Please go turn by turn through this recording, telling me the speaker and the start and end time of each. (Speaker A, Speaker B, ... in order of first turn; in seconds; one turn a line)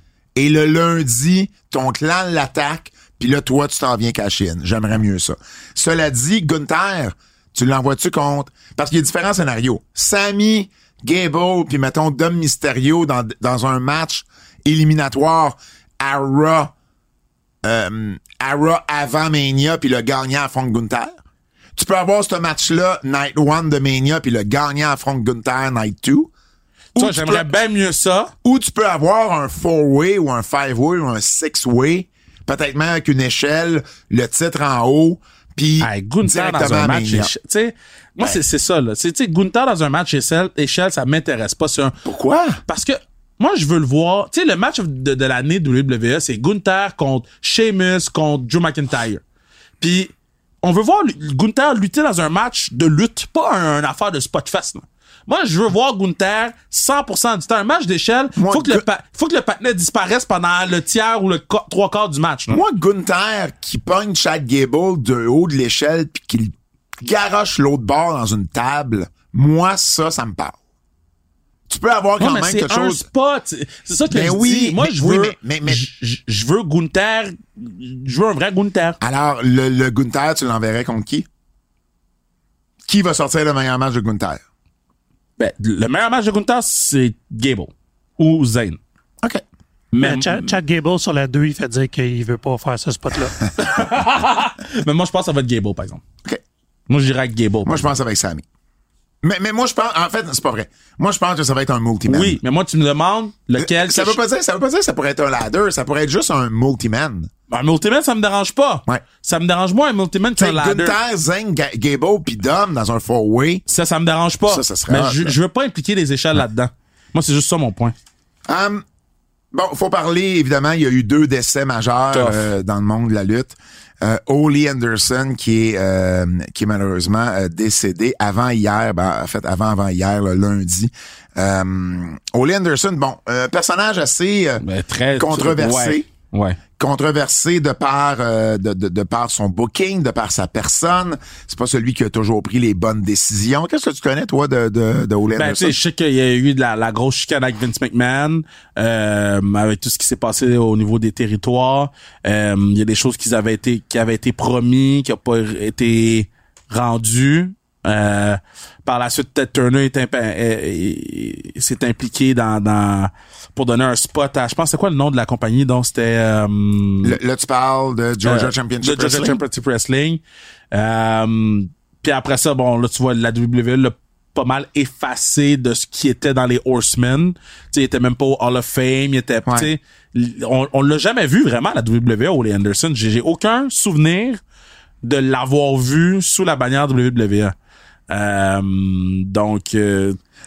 Speaker A: 0.4-16.7
Speaker A: 17.6-21.2
Speaker A: 21.8-26.3
Speaker A: 27.0-27.5
Speaker B: 27.0-28.3
Speaker A: 28.4-37.3
Speaker B: 35.8-42.0
Speaker A: 42.0-42.6
Speaker B: 42.7-49.2
Speaker B: 49.8-62.6
Speaker A: 58.4-58.9
Speaker A: 62.5-70.6
Speaker A: 71.7-73.0
Speaker B: 72.2-79.0
Speaker A: 74.1-75.9
Speaker A: 79.0-81.3
Speaker A: 82.9-84.4
Speaker B: 85.4-88.8
Speaker B: 89.9-90.5
Speaker C: 90.0-93.4
Speaker B: 93.6-96.0
Speaker B: 96.9-97.9
Speaker A: 97.7-98.4
Speaker A: 99.2-102.4
Speaker B: 102.1-104.2
Speaker A: 103.6-107.3
Speaker B: 107.5-111.0
Speaker A: 110.4-113.6
Speaker B: 113.7-118.0
Speaker A: 114.5-115.4
Speaker A: 118.5-118.8
Speaker A: 119.5-134.6
Speaker B: 122.1-122.4
Speaker B: 134.6-136.6
Speaker A: 135.2-136.1
Speaker A: 136.8-145.8
Speaker B: 145.4-167.2
Speaker A: 167.0-169.4
Speaker B: 168.2-184.4
Speaker A: 179.5-179.7
Speaker B: 185.0-187.6
Speaker B: 188.1-190.2